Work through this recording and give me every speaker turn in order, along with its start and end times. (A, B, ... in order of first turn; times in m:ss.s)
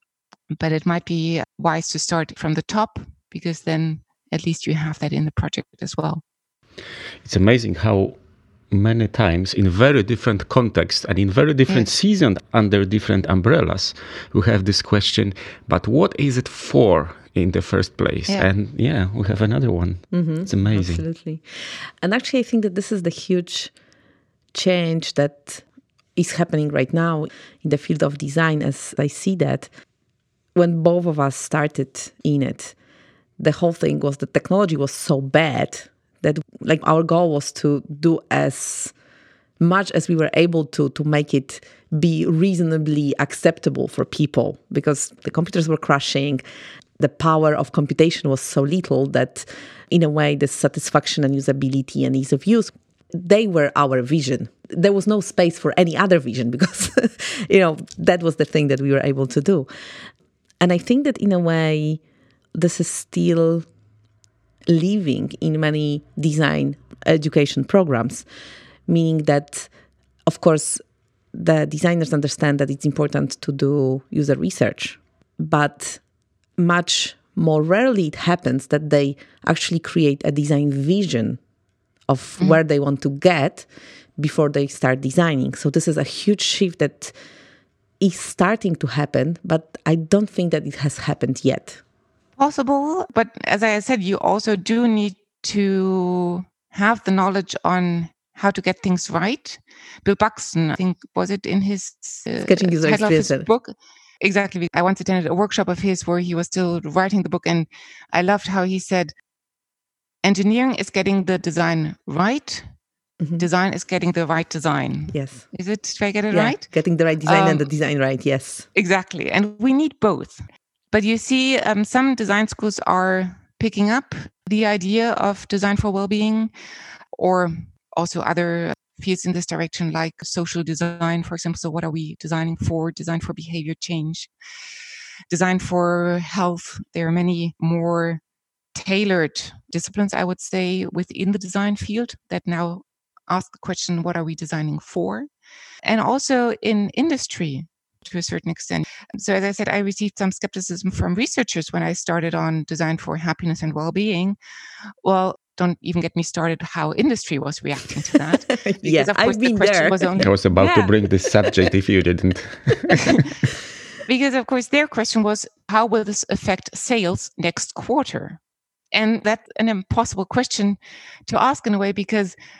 0:00.5-0:06.2 A
0:07.2-0:08.2 B
0:08.7-0:21.0 B
0:20.1-0:23.7 C
0:24.5-0:25.6 C
0:26.2-0:29.7 C
0:30.5-0:32.8 C
0:33.4-0:38.9 C
0:39.6-0:46.4 C
0:47.0-0:59.7 C
1:00.6-1:02.0 C
1:02.5-1:03.6 C
1:04.7-1:08.2 C
1:08.9-1:09.7 C
1:10.2-1:16.0 C
1:16.6-1:21.4 C
1:22.1-1:23.7 C
1:24.2-1:27.2 C
1:28.0-1:31.8 C
1:32.4-1:49.1 A
1:42.4-1:43.5 C
1:50.2-1:52.6 A
1:53.2-1:53.4 C
1:53.4-1:57.7 A
1:55.1-1:55.5 C
1:56.3-1:58.7 C
1:58.7-2:00.4 A
2:00.9-2:06.5 A
2:07.2-2:14.3 A
2:15.3-2:18.2 A
2:18.7-2:25.3 A
2:25.8-2:34.4 A
2:35.0-2:40.9 A
2:38.5-2:40.1 C
2:40.2-2:43.2 B
2:44.0-2:48.4 A
2:48.9-2:52.4 A